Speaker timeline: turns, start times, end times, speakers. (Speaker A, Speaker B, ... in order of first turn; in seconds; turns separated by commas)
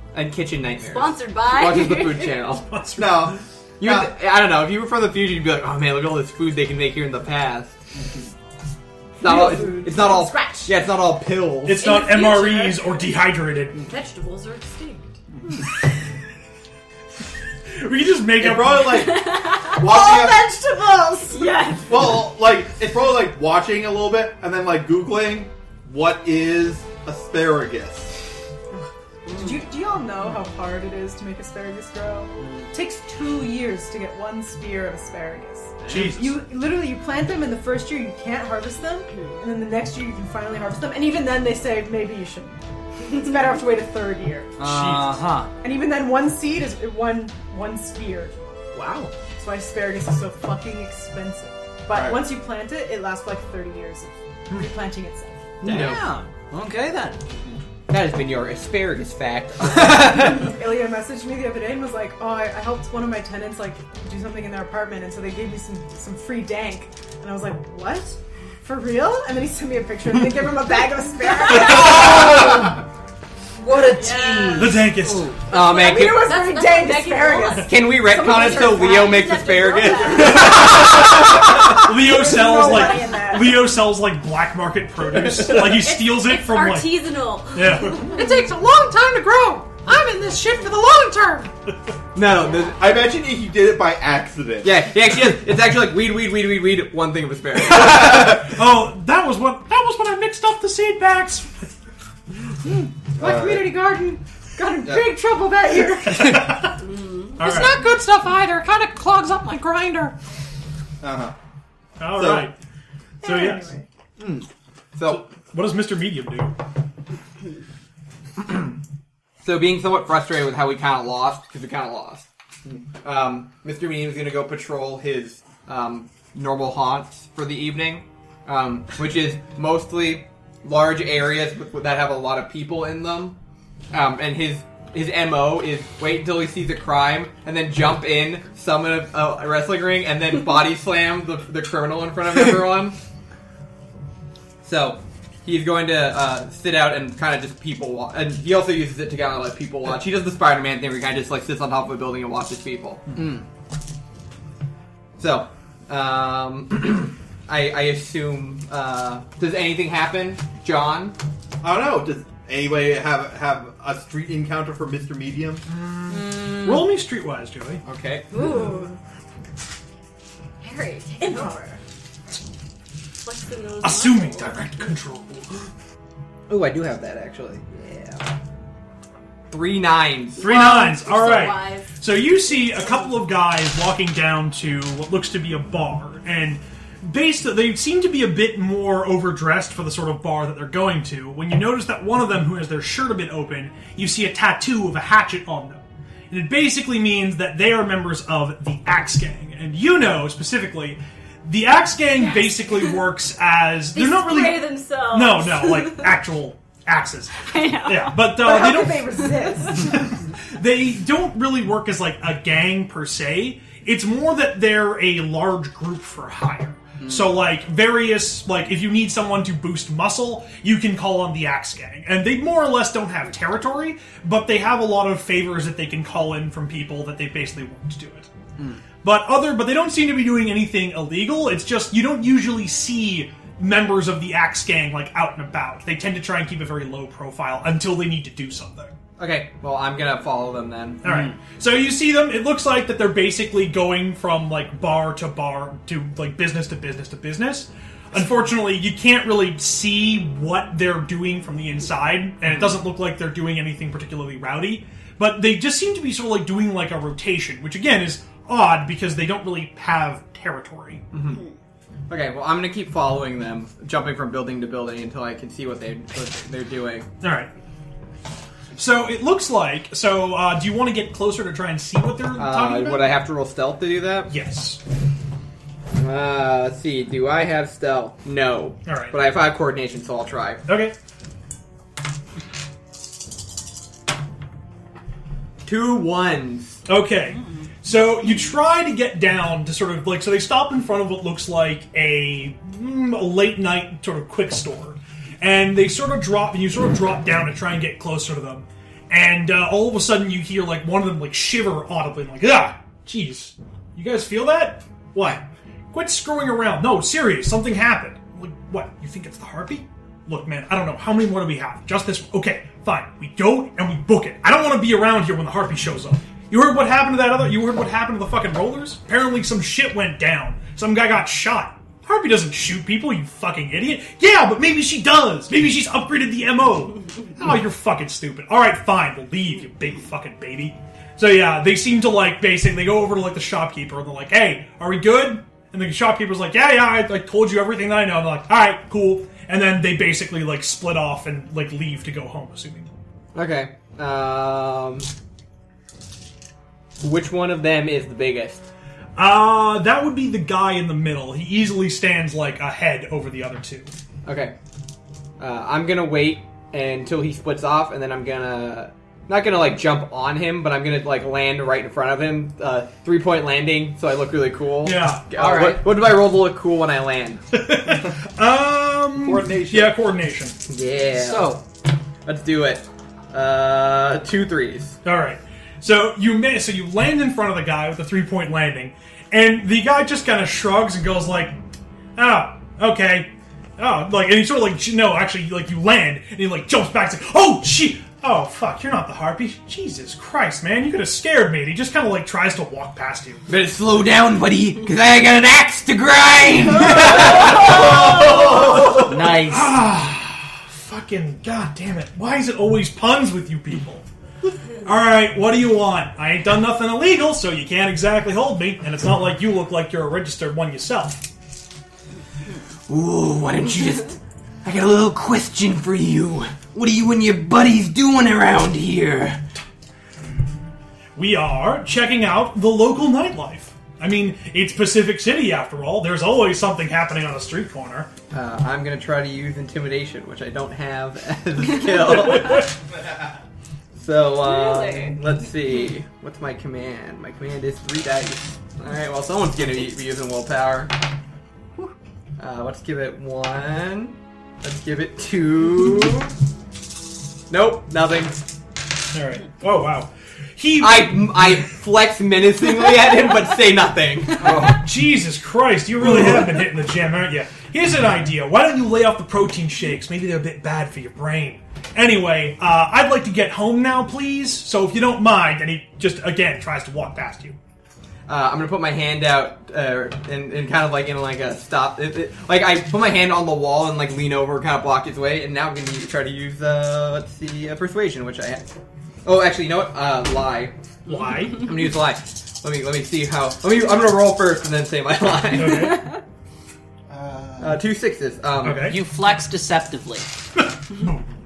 Speaker A: 0.1-2.7, Speaker B: 0.8-2.5, Speaker C: 2.7-3.4, Speaker D: 3.0-4.1, Speaker A: 3.8-7.8, Speaker A: 9.2-11.8, Speaker E: 9.2-10.5, Speaker B: 9.9-10.7, Speaker C: 11.6-13.8, Speaker B: 11.7-13.2, Speaker B: 13.8-15.1, Speaker C: 17.7-18.9, Speaker D: 18.4-20.5, Speaker B: 18.8-20.0, Speaker E: 19.8-21.5, Speaker B: 21.3-22.1, Speaker D: 21.9-28.2, Speaker E: 28.8-44.6, Speaker B: 29.3-29.7, Speaker C: 35.9-36.4, Speaker F: 44.6-45.5, Speaker C: 44.6-45.1, Speaker E: 45.6-48.3, Speaker F: 48.7-49.1, Speaker E: 49.4-55.4, Speaker D: 51.9-52.2, Speaker A: 55.6-56.0, Speaker F: 55.6-57.2, Speaker A: 57.9-60.5, Speaker E: 60.1-72.1, Speaker F: 71.7-72.8, Speaker F: 73.6-75.4, Speaker B: 73.7-74.9, Speaker C: 74.6-75.4, Speaker A: 75.4-76.3, Speaker B: 75.5-80.7, Speaker E: 75.8-77.7, Speaker A: 77.6-81.3, Speaker C: 80.5-88.1, Speaker E: 81.9-83.8, Speaker B: 85.6-88.1, Speaker F: 88.1-91.5, Speaker A: 92.1-92.8, Speaker D: 92.7-94.7, Speaker A: 94.6-98.5, Speaker C: 97.6-101.7, Speaker E: 103.2-106.3, Speaker D: 103.2-103.8, Speaker C: 106.1-106.9, Speaker B: 106.8-107.4, Speaker C: 107.4-107.8, Speaker F: 107.4-110.2, Speaker D: 111.0-111.3, Speaker C: 112.0-112.5, Speaker D: 112.1-112.5, Speaker C: 113.2-113.7, Speaker E: 113.2-113.9, Speaker A: 115.0-115.2, Speaker C: 115.0-116.5, Speaker A: 119.4-122.3, Speaker A: 123.0-133.4, Speaker A: 133.9-143.0, Speaker A: 144.6-153.3, Speaker F: 153.2-153.4, Speaker A: 155.2-161.2, Speaker D: 161.6-165.6, Speaker C: 165.7-167.8, Speaker F: 166.1-166.9, Speaker A: 167.8-168.3, Speaker B: 168.3-168.9, Speaker B: 170.6-171.8, Speaker E: 171.2-171.5, Speaker B: 173.2-174.9, Speaker C: 173.8-175.7, Speaker A: 176.5-178.3, Speaker A: 179.5-180.5, Speaker B: 180.4-183.1, Speaker C: 180.4-209.2, Speaker B: 202.2-203.0, Speaker B: 203.9-206.2, Speaker B: 207.4-208.5, Speaker E: 208.3-210.1, Speaker C: 209.8-228.3, Speaker C: 229.0-239.0, Speaker A: 239.2-241.2, Speaker C: 241.0-261.0, Speaker A: 261.1-261.4, Speaker B: 261.2-261.6, Speaker A: 262.1-267.1, Speaker C: 267.2-267.5, Speaker C: 268.7-273.2, Speaker A: 272.4-274.3, Speaker C: 274.3-274.8, Speaker A: 276.0-280.7, Speaker C: 278.9-279.2, Speaker C: 280.7-280.9, Speaker A: 285.6-286.8, Speaker C: 286.9-342.9, Speaker A: 343.3-345.1, Speaker A: 347.0-348.7, Speaker C: 349.2-353.9, Speaker A: 354.2-354.6, Speaker A: 355.4-367.4, Speaker C: 364.8-365.3, Speaker F: 365.4-365.9, Speaker C: 367.5-370.6, Speaker D: 369.1-370.0, Speaker A: 370.7-371.6, Speaker F: 371.1-371.6, Speaker A: 372.2-375.0, Speaker C: 375.1-381.6, Speaker C: 382.2-393.4, Speaker A: 393.5-398.5, Speaker C: 397.3-404.0, Speaker D: 397.4-398.8, Speaker F: 399.0-399.8, Speaker C: 404.8-411.3, Speaker A: 412.9-419.4, Speaker C: 421.2-428.1, Speaker A: 428.3-432.7, Speaker A: 433.9-440.9, Speaker B: 434.4-435.2, Speaker A: 442.4-446.3, Speaker A: 447.5-448.5, Speaker C: 449.1-451.6, Speaker A: 450.8-454.7, Speaker C: 454.4-467.6, Speaker A: 468.3-478.7, Speaker A: 479.2-480.8, Speaker C: 481.1-481.7, Speaker A: 481.5-486.2, Speaker C: 485.5-486.1, Speaker D: 487.1-487.8, Speaker A: 487.6-488.9, Speaker C: 488.6-489.0, Speaker F: 488.8-490.3, Speaker C: 490.6-491.2